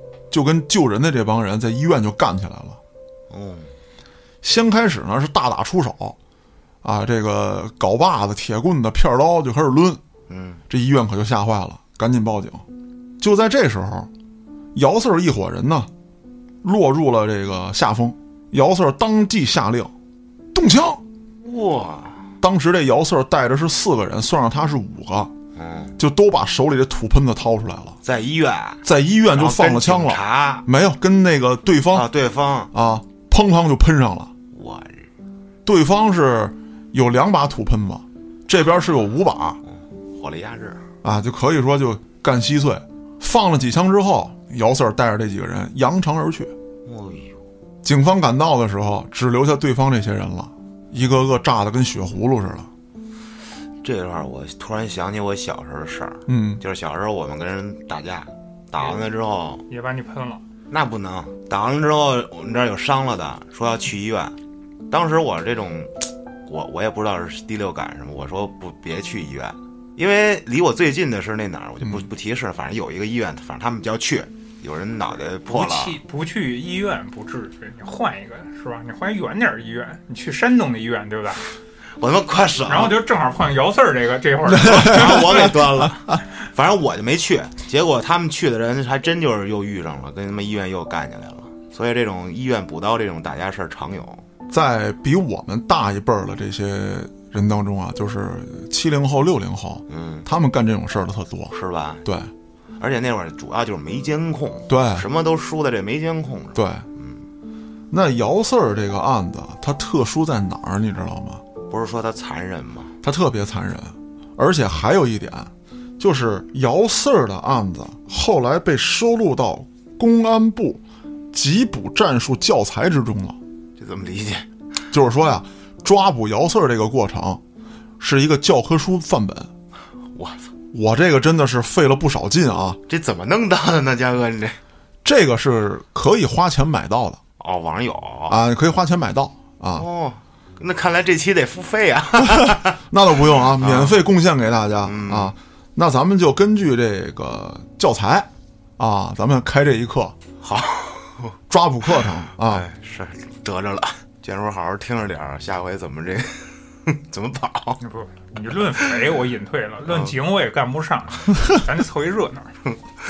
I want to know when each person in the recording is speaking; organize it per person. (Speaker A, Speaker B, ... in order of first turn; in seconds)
Speaker A: 0.3-2.8, 4.4-6.2, 6.8-10.0, 10.7-12.6, 13.2-14.1, 14.8-15.9, 16.6-19.9, 20.5-21.0, 22.4-25.3, 26.0-28.0, 28.8-32.0, 32.7-34.3, 35.6-39.6, 41.0-46.5, 47.8-52.7, 56.3-56.6, 84.5-86.1, 94.5-101.5, 102.0-102.3, 104.7-105.0, 106.5-106.8, 107.9-111.4, 113.0-120.8, 121.3-123.4, 124.9-127.4, 128.0-129.5, 130.7-132.8, 135.0-137.2, 138.3-139.8, 142.9-150.2, 151.5-152.6
Speaker B: 3.3-3.7, 10.3-10.6, 21.4-22.3, 25.6-26.0, 28.0-30.6, 31.9-32.7, 34.5-35.1, 40.1-40.8, 46.8-47.4, 53.8-59.6, 60.7-64.3, 64.9-76.0, 82.0-83.0, 84.6-94.2, 99.9-100.3, 101.5-102.0, 102.8-107.2, 111.7-112.9, 123.8-124.5, 130.1-130.5, 132.9-134.6, 137.4-138.4, 139.8-142.8, 143.6-144.0, 144.8-145.3, 150.4-151.3, 152.4-157.8, 159.9-160.1
Speaker C: 59.7-60.4, 75.5-81.5, 82.7-85.5, 157.8-162.5